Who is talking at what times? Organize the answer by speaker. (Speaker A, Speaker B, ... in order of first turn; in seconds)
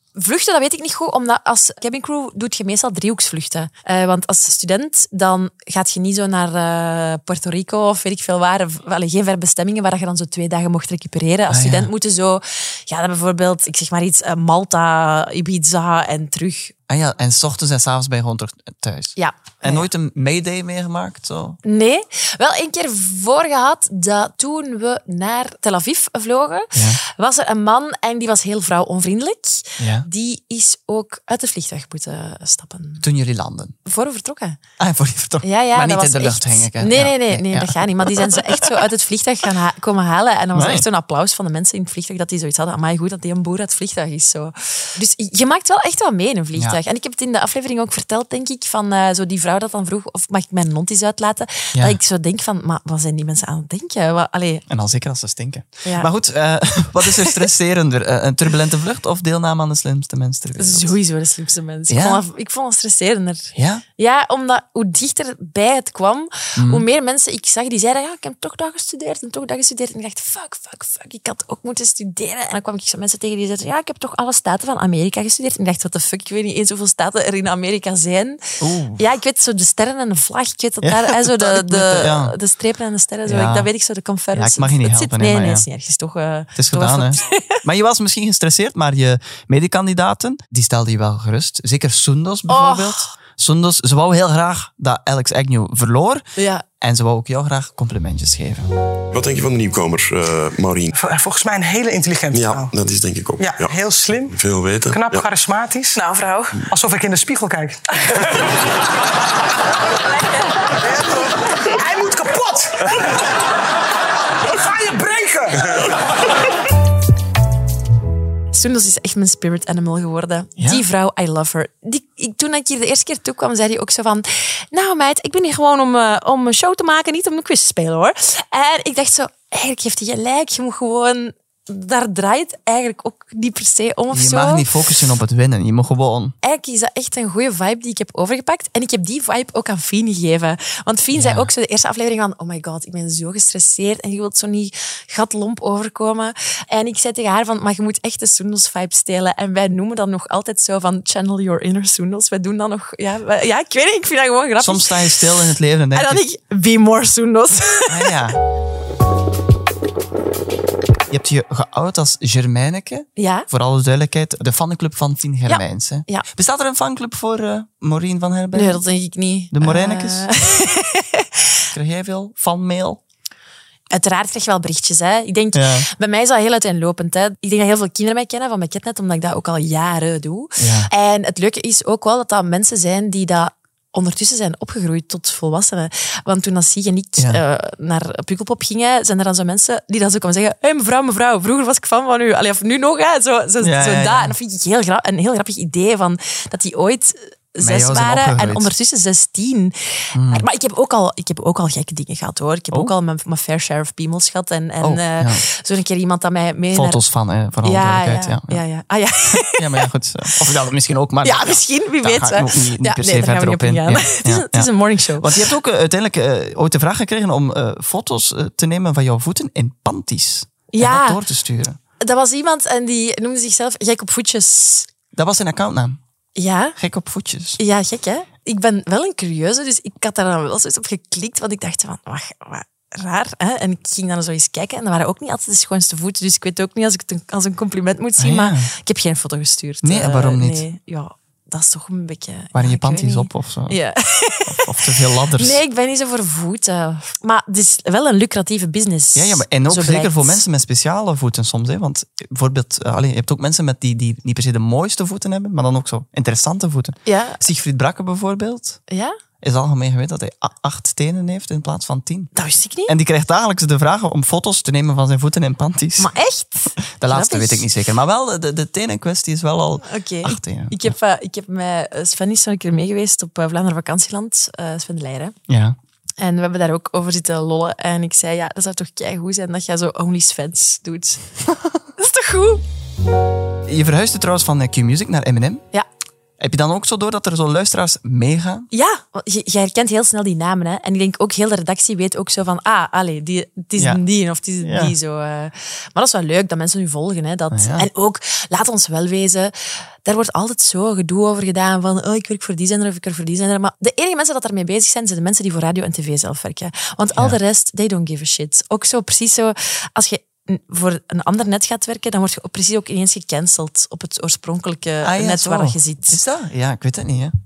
Speaker A: 0.2-16.7, 19.2-19.9, 21.6-33.1, 33.9-34.6, 35.4-54.7, 57.1-57.4, 60.6-78.4, 79.0-87.6, 92.5-93.1, 96.4-96.7, 106.0-106.7, 118.5-134.7, 136.4-158.2, 163.2-163.5, 165.5-166.3, 168.5-171.4, 173.9-207.0, 207.6-209.8, 211.2-215.5, 220.7-221.2, 222.0-224.9, 226.4-226.8, 227.6-250.4, 257.1-257.4, 258.9-259.1, 262.4-262.9, 266.0-267.7, 269.8-275.4, 276.2-281.3, 282.0-282.6, 288.7-316.2
Speaker B: 11.5-11.9, 16.9-21.6, 26.7-27.0, 29.8-30.1, 33.0-33.7, 34.8-38.7, 40.5-40.9, 54.7-61.0, 61.9-62.2, 63.6-63.8, 66.6-66.8, 78.6-79.0, 80.8-82.4, 83.3-83.7, 84.3-85.7, 86.6-96.2, 96.8-98.7, 120.6-120.8, 134.1-136.3, 141.2-141.5, 154.6-156.2, 157.9-158.4, 161.1-168.8, 169.5-170.3, 171.7-173.0, 175.5-175.9, 180.6-180.9, 193.6-194.4, 197.6-198.7, 200.1-200.5, 204.8-205.4, 206.7-208.6, 209.5-221.8, 225.2-226.0, 226.8-227.6, 238.2-238.7, 239.8-240.7, 242.5-243.8, 244.4-245.6, 249.2-258.8, 259.4-262.3, 262.9-266.1, 266.8-270.9, 275.5-275.8, 283.7-285.6, 286.4-288.7, 294.6-294.9, 297.5-297.9, 315.0-317.3
Speaker C: 99.1-100.9, 102.3-105.3
Speaker D: 100.9-102.8, 103.4-104.3, 104.9-106.0, 106.6-107.8, 111.7-112.9, 114.5-115.8